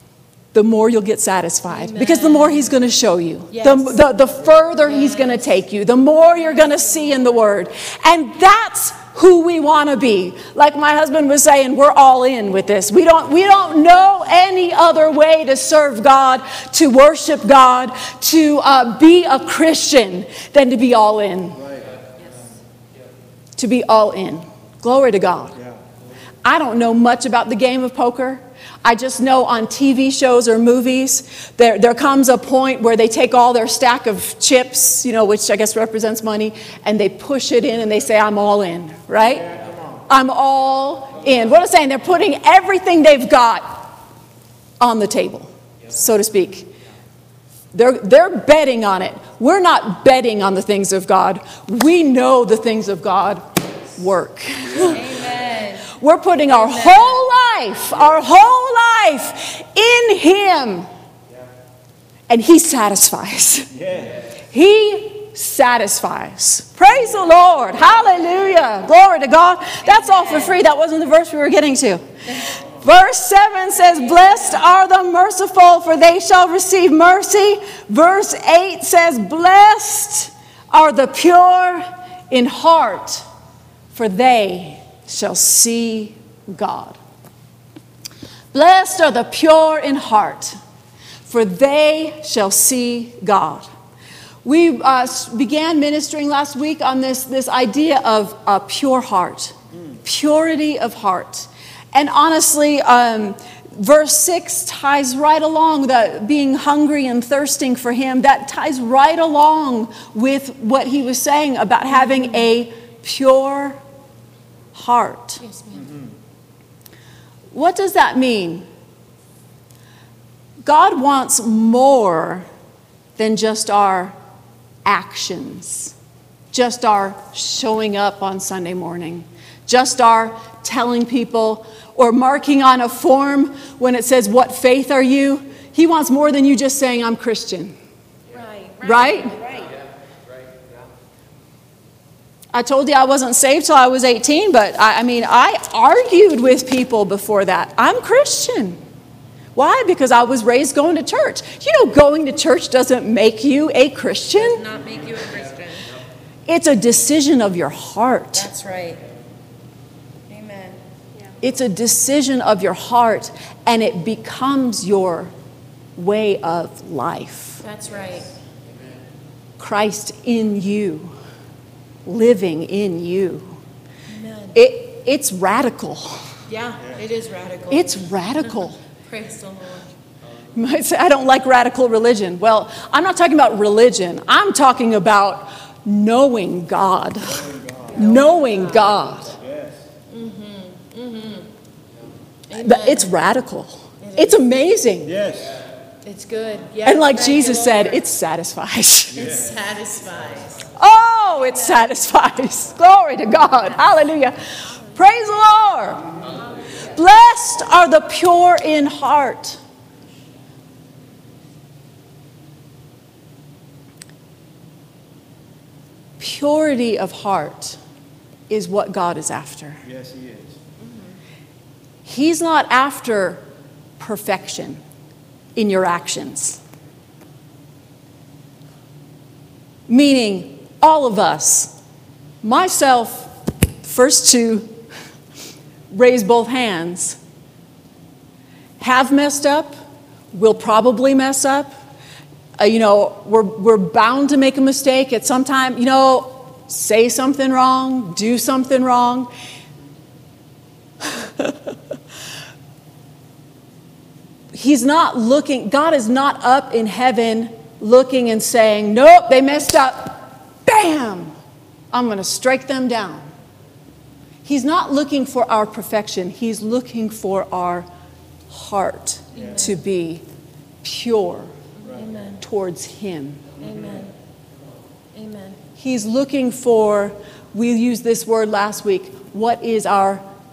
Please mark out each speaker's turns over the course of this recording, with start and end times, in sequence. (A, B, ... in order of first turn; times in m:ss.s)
0:00.5-0:21.6 A
0:01.7-0:02.7 B
0:03.5-0:04.0 B
0:05.0-0:05.4 B
0:21.6-0:21.9 C
0:23.6-0:25.6 A
0:26.4-0:39.5 A
0:40.1-0:44.0 A
0:44.8-0:46.7 A
0:47.7-0:53.4 A
0:53.9-0:55.0 A
0:54.8-0:55.9 B
0:55.9-1:00.9 A
0:56.5-0:57.2 B
1:02.3-1:03.7 A
1:03.8-1:04.1 C
1:04.5-1:23.2 A
1:09.8-1:10.6 B
1:23.9-1:27.0 A
1:28.5-1:30.6 A
1:31.3-1:33.7 A
1:34.4-1:53.8 A
1:54.7-1:55.4 A
1:55.4-1:55.9 B
1:57.5-1:58.6 A
2:00.6-2:02.5 A
2:03.2-2:04.1 A
2:04.8-2:05.9 A
2:06.5-2:17.7 A
2:18.3-2:19.7 B
2:18.8-2:19.3 A
2:22.5-2:28.8 A
2:29.6-2:34.6 A
2:34.4-2:35.9 B
2:36.5-2:38.5 A
2:38.3-2:39.0 B
2:40.3-2:40.8 B
2:41.4-2:45.3 A
2:46.0-2:47.6 A
2:47.6-2:48.3 B
2:49.6-2:51.1 A
2:52.0-2:53.6 A
2:54.1-2:54.5 B
2:54.5-2:56.2 A
2:56.5-2:58.0 B
2:57.7-2:58.8 A
2:59.1-2:59.9 B
3:00.5-3:09.4 A
3:07.4-3:08.0 C
3:09.4-3:09.8 C
3:10.1-3:11.5 B
3:12.5-3:13.1 B
3:12.6-3:15.2 A
3:14.0-3:14.4 B
3:15.1-3:15.6 C
3:16.0-3:18.0 B
3:16.8-3:19.2 A
3:19.1-3:20.7 B
3:19.2-3:19.4 C
3:20.8-3:24.4 A
3:24.9-3:26.0 A
3:26.9-3:29.6 A
3:36.2-3:37.8 A
3:38.5-3:39.8 A
3:39.8-3:40.6 C
3:42.0-3:43.4 A
3:44.0-3:44.8 A
3:45.6-3:46.6 A
3:49.9-3:51.7 A
3:52.4-3:53.3 A
3:53.8-3:54.7 A
3:55.9-3:57.2 A
3:58.8-3:59.8 A
4:00.3-4:01.7 A
4:02.6-4:09.3 A
4:11.1-4:11.6 A
4:14.5-4:21.4 A
4:21.9-4:23.3 A
4:24.4-4:27.9 A
4:28.5-4:30.2 A
4:29.3-4:29.8 B
4:30.8-4:31.5 A
4:31.8-4:32.4 B
4:32.4-4:33.4 A
4:33.6-4:34.1 B
4:35.1-4:35.6 B
4:35.8-4:40.2 A